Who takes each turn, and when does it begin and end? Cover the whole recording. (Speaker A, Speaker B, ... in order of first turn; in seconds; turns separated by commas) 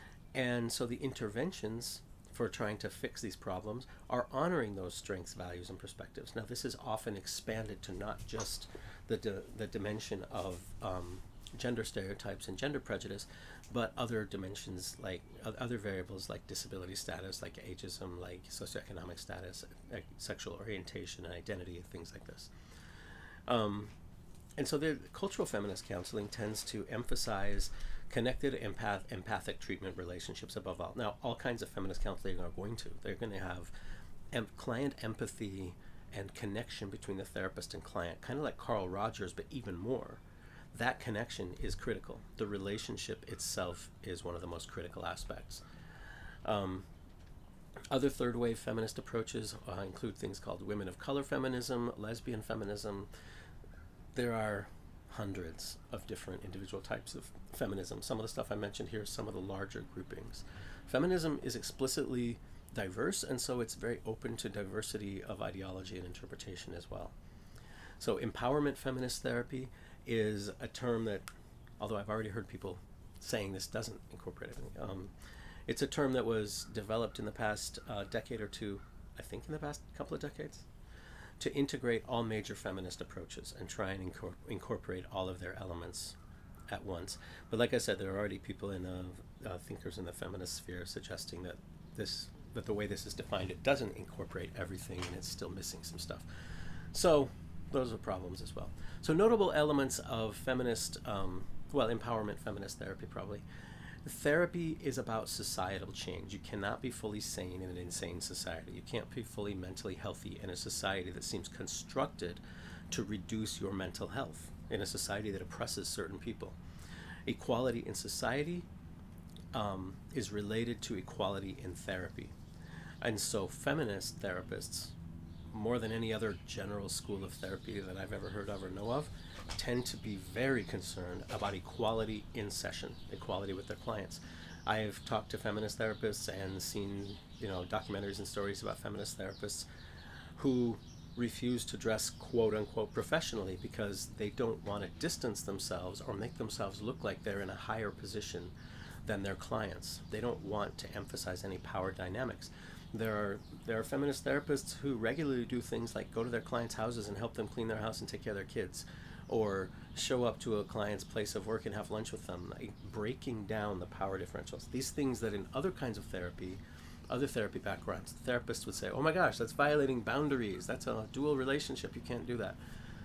Speaker A: 0.3-22.5, Speaker A: 23.5-23.9, Speaker A: 24.6-33.7, Speaker A: 34.3-40.2, Speaker A: 40.7-45.6, Speaker A: 46.4-46.9, Speaker A: 47.9-53.1, Speaker A: 54.1-67.1, Speaker A: 68.0-71.3, Speaker A: 71.8-75.1, Speaker A: 75.7-80.7, Speaker A: 81.4-86.2, Speaker A: 86.7-96.2, Speaker A: 96.9-103.4, Speaker A: 104.0-116.6, Speaker A: 117.2-118.7, Speaker A: 119.5-122.3, Speaker A: 123.0-124.9, Speaker A: 125.5-139.7, Speaker A: 140.4-148.5, Speaker A: 149.1-172.6